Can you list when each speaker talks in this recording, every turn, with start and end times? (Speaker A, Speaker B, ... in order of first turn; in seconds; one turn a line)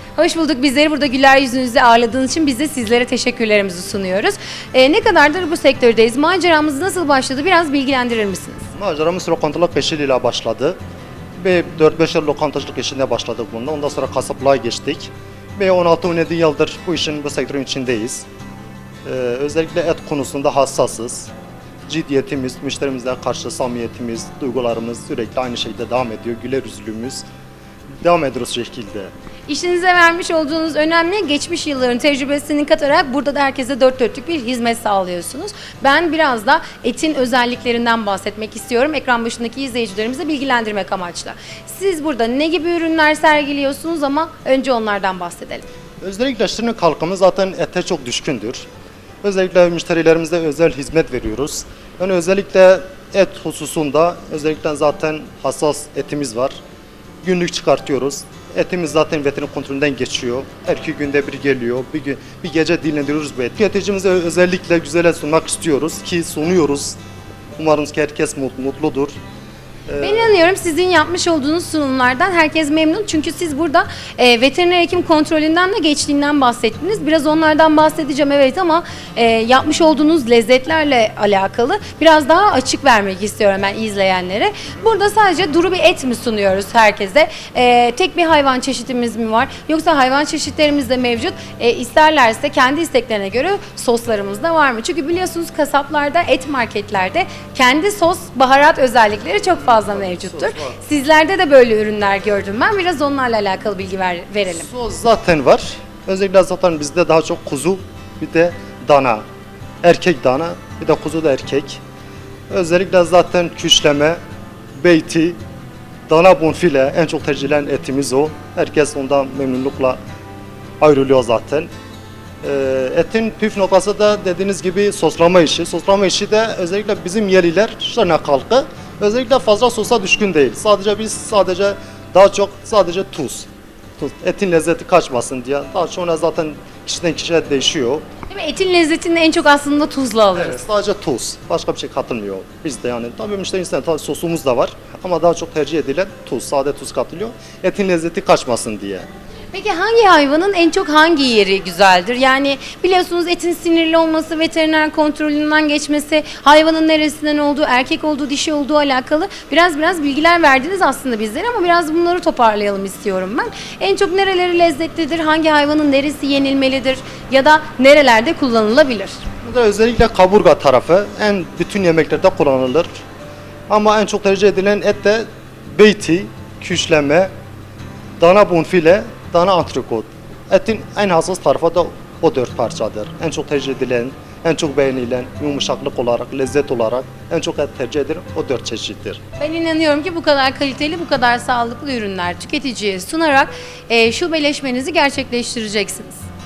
Speaker A: 0.2-8.7
Speaker B: 8.7-10.8
Speaker B: 11.4-18.3
Speaker B: 19.0-21.3
Speaker B: 21.9-27.2
Speaker B: 28.0-29.1
Speaker A: 29.5-45.6
Speaker B: 46.0-48.7
Speaker B: 49.2-56.6
Speaker B: 57.2-67.0
Speaker B: 67.6-69.1
Speaker B: 69.9-70.3
Speaker A: 70.0-104.7
Speaker B: 99.8-100.8
Speaker B: 104.5-109.2
Speaker B: 109.8-111.8
Speaker B: 112.5-114.2
Speaker B: 114.8-115.4
Speaker B: 116.1-120.0
Speaker B: 120.8-121.7
Speaker B: 122.4-138.0
Speaker A: 138.3-140.6
Speaker B: 140.3-149.1
Speaker A: 149.5-169.2
Speaker B: 169.4-172.9
Speaker B: 173.7-177.3
Speaker B: 178.2-189.2
Speaker A: 189.4-196.2